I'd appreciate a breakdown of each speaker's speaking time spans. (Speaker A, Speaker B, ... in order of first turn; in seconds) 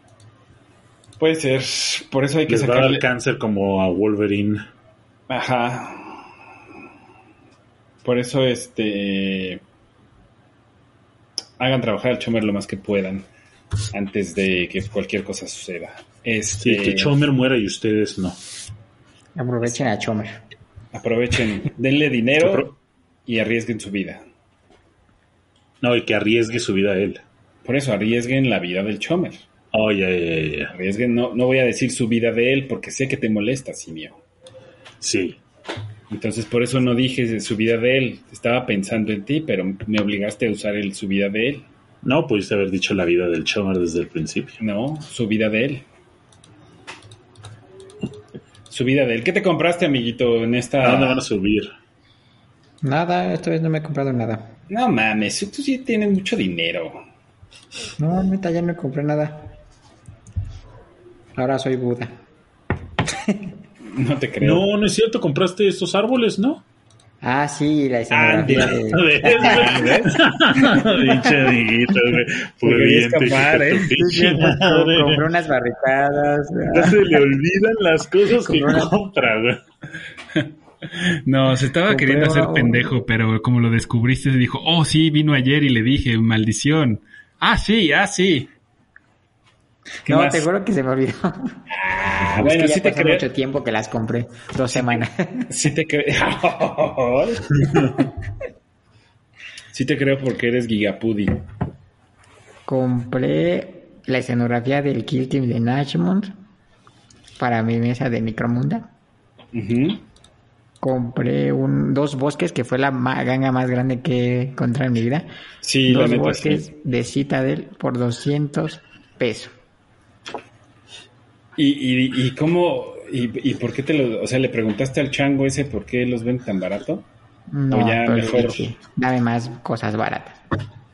Speaker A: 1.2-3.0, 5.3-6.3, 8.0-9.6, 11.6-13.3, 13.9-17.1, 20.9-24.2, 27.6-29.4, 30.7-34.2, 36.1-41.6, 44.6-45.8, 48.7-51.2, 54.7-57.0, 63.8-64.6, 68.4-68.7, 69.4-70.1, 72.6-73.9, 80.3-88.5, 90.0-90.5, 91.7-93.2, 94.7-98.0, 99.7-101.4, 109.5-110.0, 115.6-116.6, 121.6-127.0, 127.7-128.7
Speaker B: 2.5-4.7, 16.6-18.4, 22.4-22.7, 25.8-27.2, 29.7-30.7, 35.0-35.4, 42.0-44.6, 50.8-51.7, 64.4-66.6, 68.1-75.2, 76.7-79.6
Speaker C: 19.4-20.4, 52.8-54.5, 58.0-59.5, 61.4-62.1, 67.2-69.9, 73.9-77.1, 78.2-78.9, 81.9-82.9, 90.1-91.6, 92.4-95.5, 102.7-106.3, 107.4-108.9, 110.8-115.3, 115.8-119.5, 127.5-130.4